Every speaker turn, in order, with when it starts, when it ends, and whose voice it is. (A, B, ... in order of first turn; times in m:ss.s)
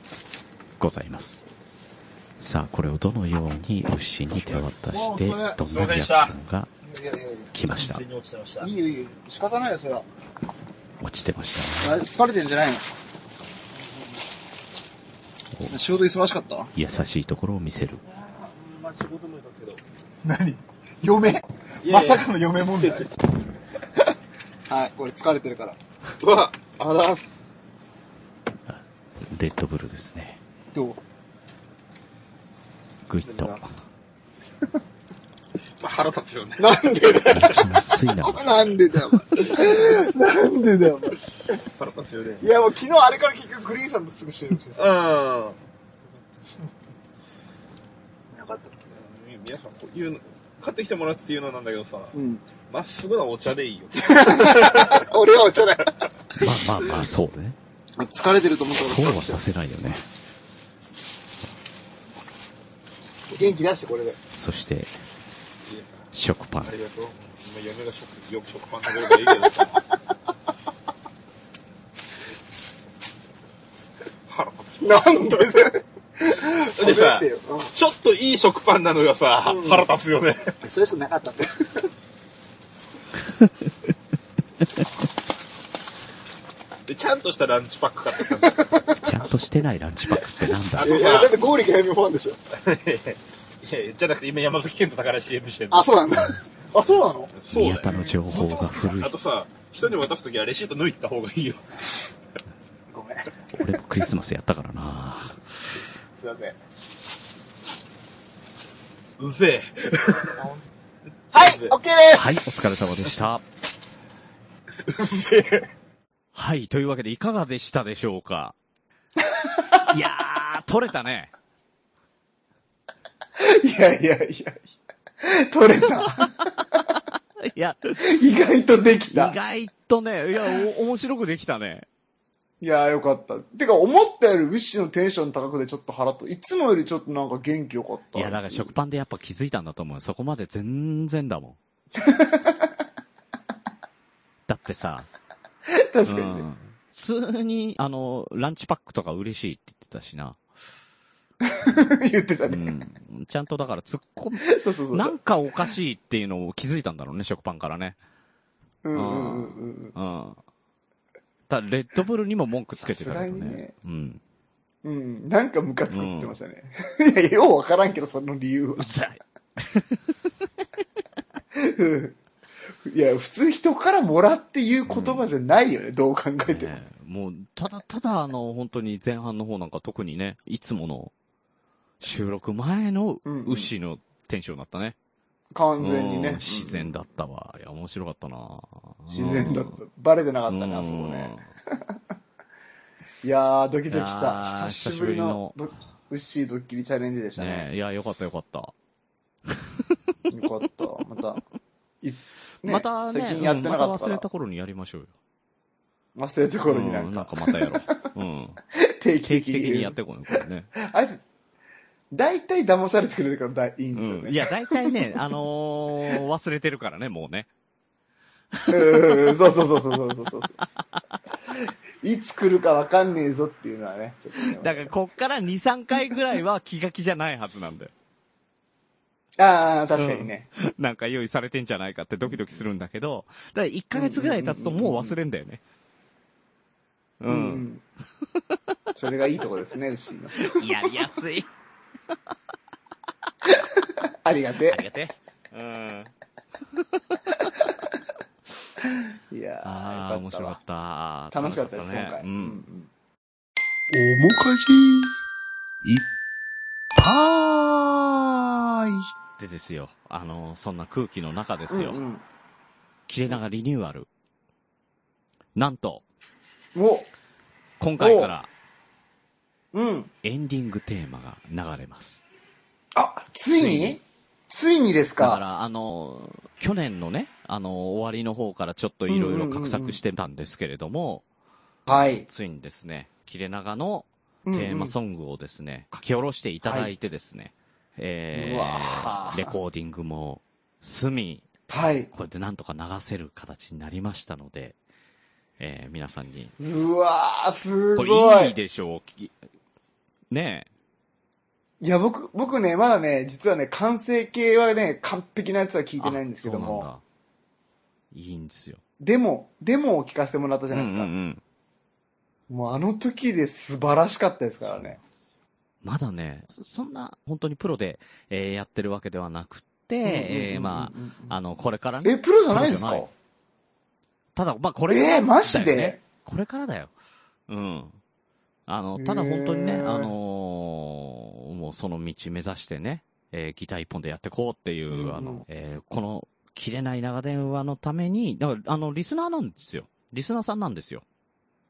0:00.8-0:01.4 A
0:02.4-0:06.7 A
0:04.9-0:05.6 B
0:05.7-0:06.4 C
0:06.8-0:07.6 B
0:07.5-0:08.0 A
0:07.8-0:08.7 C
0:08.6-0:10.1 B
0:11.0-0:12.0 A
0:11.8-0:12.9 B
0:15.7-0:16.7 B
0:16.8-0:18.0 A
0:18.1-0:19.8 C
0:20.2-0:23.1 B
0:21.8-0:23.2 C
0:24.7-0:25.8 B
0:26.2-0:27.3 C
0:28.7-0:30.4 A
0:30.7-0:31.0 B
0:33.1-0:33.7 A
0:33.2-0:33.6 C
0:35.8-0:37.6 C
0:36.6-0:37.6 B
0:37.3-0:38.5 A
0:38.2-0:41.2 B
0:39.4-0:40.0 C
0:41.8-0:42.5 C
0:42.4-0:45.0 B
0:44.8-0:45.6 C
0:48.3-0:49.0 B
0:48.9-0:52.1 C
0:52.1-0:52.4 B
0:52.7-0:55.1 C
0:54.0-0:56.5 B
0:56.4-0:57.6 A
0:58.0-0:59.4 B
0:58.7-1:00.1 A
1:03.3-1:04.2 B
1:04.3-1:04.9 A
1:05.7-1:06.0 C
1:06.1-1:06.8 A
1:06.6-1:09.8 C
1:14.3-1:15.6 C
1:14.8-1:17.7 B
1:16.8-1:20.6 C
1:19.4-1:19.9 B
1:20.6-1:21.9 B
1:26.9-1:28.9 C
1:28.2-1:28.9 B
1:29.0-1:31.0 A
1:30.8-1:31.4 C
1:30.8-1:32.4 B
1:32.6-1:36.0 C
1:35.7-1:37.4 B
1:37.4-1:41.6 C
1:37.5-1:39.2 A
1:37.9-1:38.9 B
1:42.9-1:43.3 B
1:43.5-1:45.4 A
1:46.1-1:46.6 B
1:49.2-1:50.5 C
1:51.3-1:51.8 C
1:51.3-1:52.8 B
1:52.2-1:53.4 A
1:54.9-1:55.7 C
1:56.4-1:58.6 A
1:59.9-2:01.3 A
2:03.4-2:04.7 B
2:05.2-2:06.8 B
2:07.4-2:08.1 A
2:08.0-2:09.4 B
2:09.1-2:11.9 A
2:12.6-2:18.7 B
2:18.2-2:21.6 A
2:22.0-2:22.7 B
2:24.5-2:25.1 A
2:25.7-2:26.5 B
2:26.1-2:30.4 A
2:31.4-2:32.7 B
2:32.5-2:38.0 A
2:34.4-2:35.2 B
2:38.8-2:40.0 B
2:39.0-2:40.4 A
2:41.5-2:44.2 A
2:42.7-2:43.7 B
2:44.8-2:48.9 B
2:45.9-2:46.4 A
2:48.8-2:50.0 A
2:51.5-2:52.2 B
2:52.8-2:56.8 B
2:54.9-2:55.3 A
2:56.5-3:01.1 A
3:02.0-3:05.0 A
3:03.2-3:03.7 B
3:05.5-3:07.0 B
3:05.8-3:09.8 A
3:09.1-3:11.8 B
3:10.5-3:11.5 A
3:13.2-3:17.7 B
3:13.9-3:15.6 A
3:17.4-3:18.7 A
3:20.3-3:21.4 B
3:22.0-3:24.2 B
3:22.6-3:25.1 A
3:26.2-3:28.0 B
3:26.7-3:28.6 A
3:28.7-3:31.2 B
3:29.2-3:30.7 A
3:32.1-3:35.2 B
3:34.0-3:37.5 A
3:38.6-3:39.4 A
3:38.7-3:40.6 B
3:41.5-3:44.9 B
3:44.4-3:47.9 A
3:49.4-3:50.5 B
3:50.0-3:55.6 A
3:53.9-3:55.2 B
3:57.2-3:57.7 A
3:57.3-3:57.8 B
3:58.9-4:00.9 B
4:00.4-4:01.5 A
4:03.4-4:04.8 B
4:04.7-4:06.1 A
4:08.8-4:10.6 B
4:09.6-4:12.6 A
4:11.3-4:12.9 B
4:13.9-4:15.1 D
4:17.0-4:19.1 D
4:19.4-4:22.0 A
4:21.7-4:22.2 B
4:23.1-4:24.1 A
4:25.6-4:26.0 A
4:26.8-4:27.1 B
4:27.8-4:28.5 A
4:28.0-4:28.3 B
4:29.7-4:30.1 B
4:30.2-4:32.2 A
4:32.9-4:35.4 B
4:33.6-4:34.0 A
4:35.2-4:41.2 A
4:39.1-4:40.0 B
4:41.9-4:42.3 B
4:42.2-4:51.5 A
4:44.4-4:44.9 B
4:46.6-4:46.9 B
4:48.3-4:49.6 B
4:51.7-4:52.1 B
4:52.1-4:54.8 A
4:55.6-4:56.5 A
4:56.6-4:58.6 B
4:58.0-4:59.3 A
5:00.3-5:00.7 A
5:01.8-5:06.9 B
5:06.0-5:07.0 A
5:08.1-5:08.8 A
5:09.0-5:11.1 B
5:10.7-5:11.4 A
5:12.5-5:15.0 B
5:14.6-5:15.0 A
5:15.8-5:23.1 A
5:20.0-5:21.4 B
5:22.0-5:23.1 B
5:24.4-5:26.9 A
5:24.9-5:26.0 B
5:27.5-5:28.0 A
5:28.7-5:41.0 A
5:29.0-5:30.1 B
5:34.9-5:35.4 B